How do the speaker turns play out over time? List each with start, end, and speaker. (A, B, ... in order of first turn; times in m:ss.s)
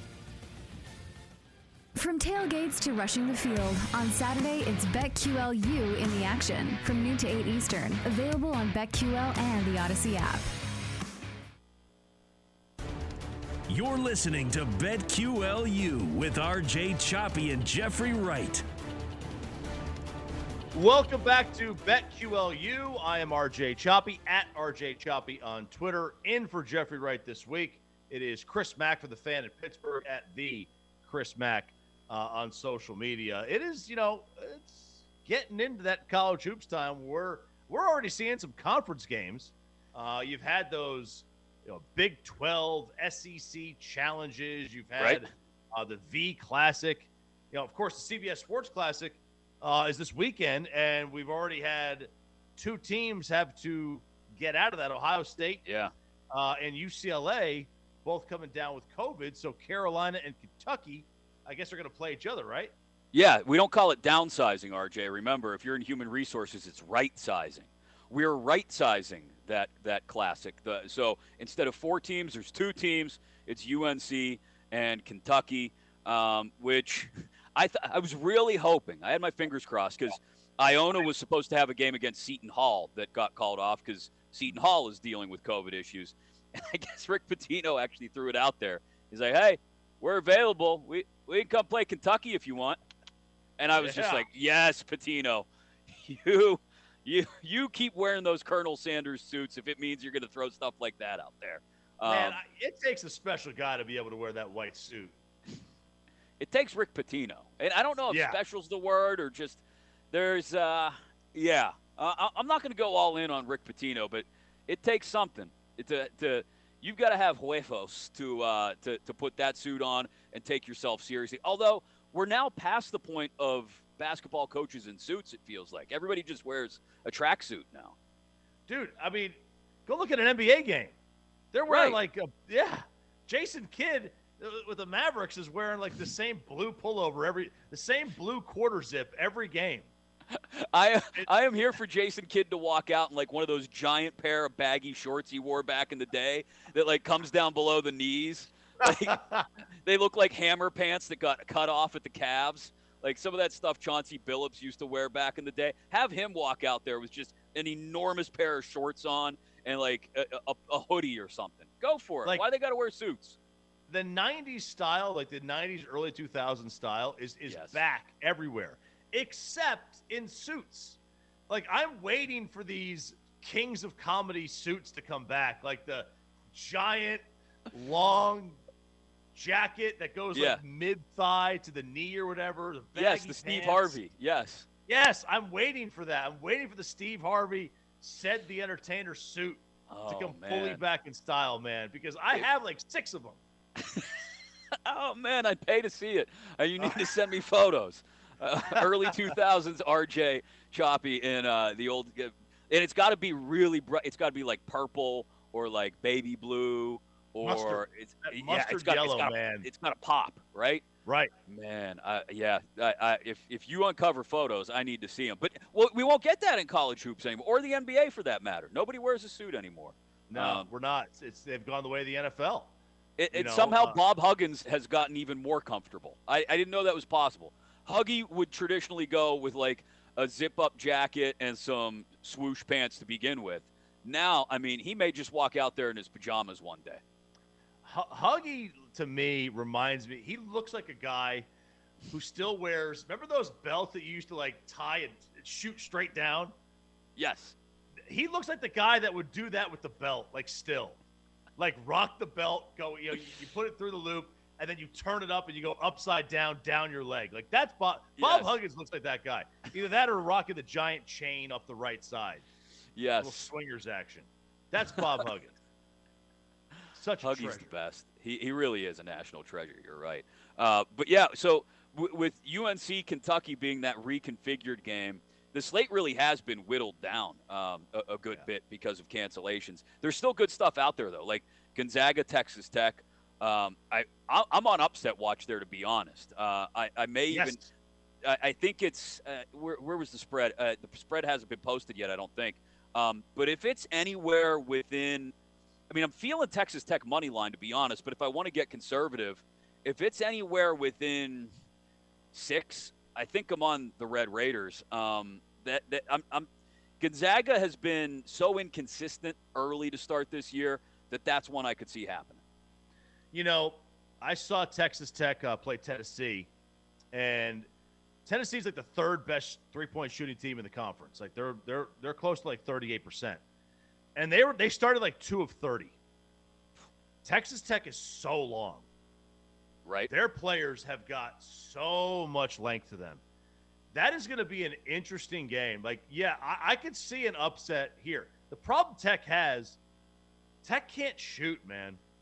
0:02.0-0:10.4 A
0:13.7-0:18.6 B
0:20.7-0:55.7 C
0:45.0-0:45.2 D
0:55.7-0:55.9 D
0:56.3-1:02.7 C
1:03.1-1:32.8 D
1:33.6-1:35.5 D
1:33.8-1:34.2 C
1:36.0-1:42.4 D
1:42.1-1:45.1 C
1:46.4-2:07.9 D
1:48.1-1:48.4 C
2:08.7-2:11.0 C
2:11.5-2:19.9 C
2:11.7-2:12.0 D
2:20.4-2:29.2 D
2:28.9-2:29.5 C
2:29.8-2:43.4 D
2:43.9-2:51.0 C
2:47.5-2:47.8 D
2:51.5-2:58.6 C
2:59.3-3:04.0 C
3:00.3-3:00.6 D
3:03.0-3:04.7 D
3:04.9-3:13.4 C
3:09.9-3:10.8 D
3:13.8-3:14.1 D
3:14.9-3:30.8 D
3:16.8-3:17.1 C
3:27.4-3:29.7 C
3:31.1-3:31.3 C
3:31.5-3:40.7 D
3:40.3-3:42.7 C
3:43.2-3:57.0 D
3:43.3-3:44.0 C
3:57.8-4:01.5 C
4:02.1-4:06.5 C
4:07.2-4:07.6 D
4:08.1-4:11.0 C
4:11.6-4:22.4 C
4:18.2-4:18.5 D
4:23.0-4:23.5 D
4:23.2-4:25.6 C
4:26.9-4:27.7 C
4:27.2-4:47.6 D
4:47.3-4:47.6 C
4:48.2-4:55.3 D
4:55.9-5:01.5 D
5:02.3-5:06.5 D
5:07.0-5:12.4 D
5:13.3-5:16.5 C
5:17.1-5:17.7 C
5:18.3-5:23.4 C
5:24.2-5:25.9 C
5:27.2-5:28.9 C
5:29.8-5:30.1 D
5:30.1-5:33.2 C
5:33.9-5:39.8 C
5:40.6-5:42.0 C